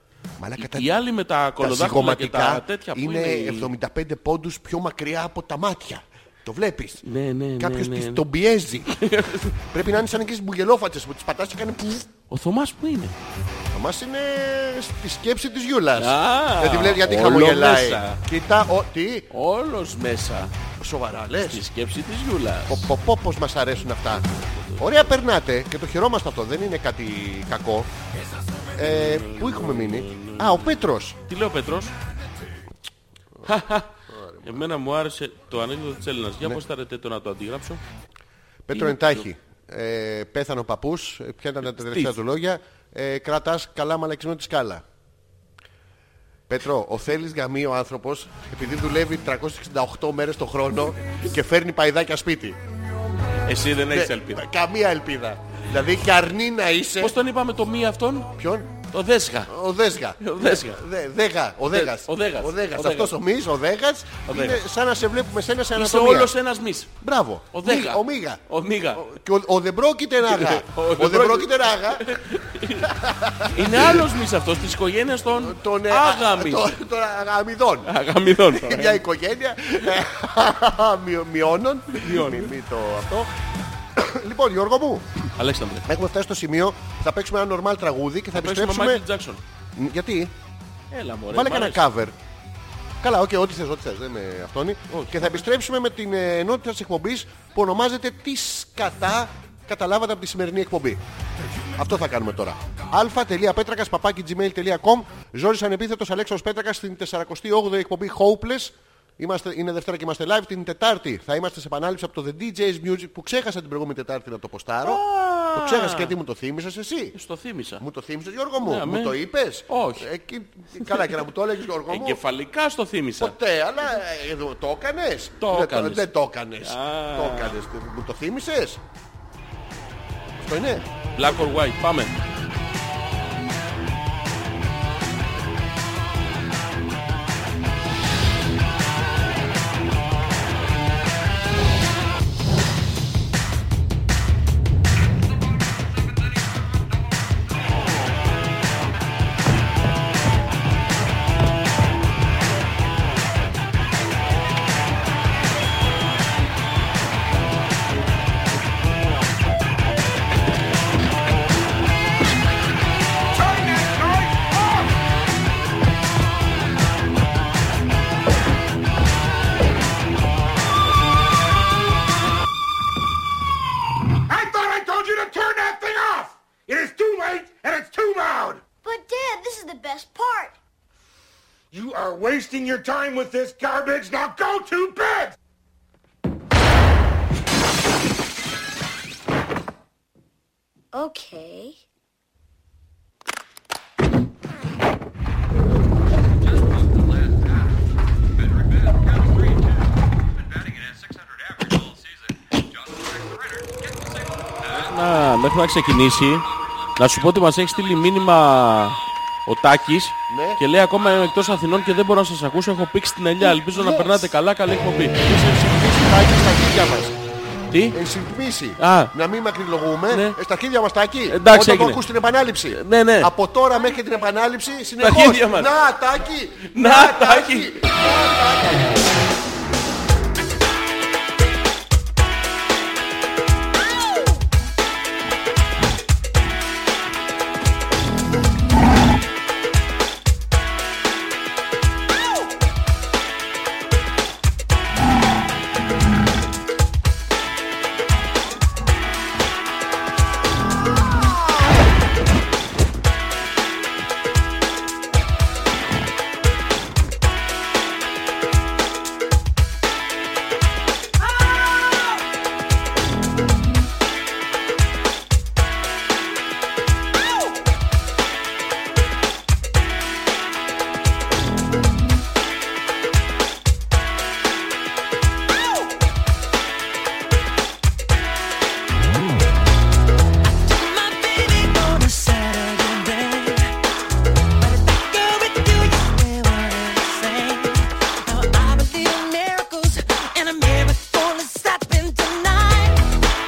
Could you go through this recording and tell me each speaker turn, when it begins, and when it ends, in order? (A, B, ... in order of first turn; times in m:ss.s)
0:00.4-0:00.9 A
0:00.6-0:03.7 B
0:01.6-0:07.0 A
0:07.0-0:08.2 B
0:07.6-0:08.9 A
0:08.9-0:09.6 B
0:09.7-0:12.1 A
0:12.3-0:13.2 B
0:13.7-0:19.3 A
0:16.0-0:18.2 B
0:19.3-0:20.5 B
0:20.8-0:21.6 A
0:21.4-0:22.9 B
0:22.7-0:27.9 A
0:24.4-0:25.1 B
0:28.8-0:31.2 A
0:28.8-0:31.9 B
0:33.4-0:37.8 B
0:34.1-0:34.6 A
0:38.6-0:44.8 A
0:38.7-0:39.3 B
0:41.6-0:42.1 B
0:46.5-0:52.6 A
0:53.4-0:54.4 B
0:53.9-0:57.2 A
0:57.0-0:58.3 B
0:58.4-0:58.8 A
0:58.9-0:59.5 B
0:59.5-1:06.3 A
1:00.2-1:00.8 B
1:01.7-1:03.1 B
1:04.2-1:04.6 B
1:05.7-1:06.9 B
1:07.0-1:08.4 A
1:07.5-1:09.1 B
1:08.9-1:12.1 A
1:10.2-1:12.9 B
1:12.8-1:14.0 A
1:13.4-1:16.7 B
1:15.4-1:17.9 A
1:17.8-1:19.0 B
1:18.4-1:23.3 A
1:21.9-1:22.5 B
1:24.0-1:25.1 A
1:25.4-1:25.8 B
1:25.8-1:29.0 A
1:28.3-1:29.4 B
1:29.7-1:30.3 A
1:30.9-1:31.8 B
1:31.3-1:32.2 A
1:33.0-1:41.0 A
1:34.9-1:35.4 B
1:41.7-1:57.2 A
1:54.8-1:56.1 B
1:57.1-1:57.8 B
1:57.8-2:02.2 A
1:58.6-1:59.2 B
1:59.7-2:00.1 B
2:01.9-2:03.3 B
2:03.2-2:08.8 A
2:05.4-2:06.1 B
2:06.6-2:07.6 B
2:10.4-2:10.8 A
2:11.2-2:12.2 B
2:43.3-2:44.9 C
2:54.3-2:58.7 C
2:58.8-3:00.5 D
3:01.7-3:05.4 C
3:10.9-3:11.8 D
3:24.6-3:35.6 B
3:30.3-3:30.6 A
3:33.4-3:34.3 A
3:35.2-3:37.2 A
3:37.7-3:38.0 B
3:37.9-3:49.0 A
3:38.8-3:39.1 B
3:40.1-3:40.4 B
3:41.3-3:42.0 B
3:42.7-3:43.3 B
3:45.0-3:45.7 B
3:46.7-3:47.8 B
4:40.4-4:43.7 E
4:44.6-4:53.0 E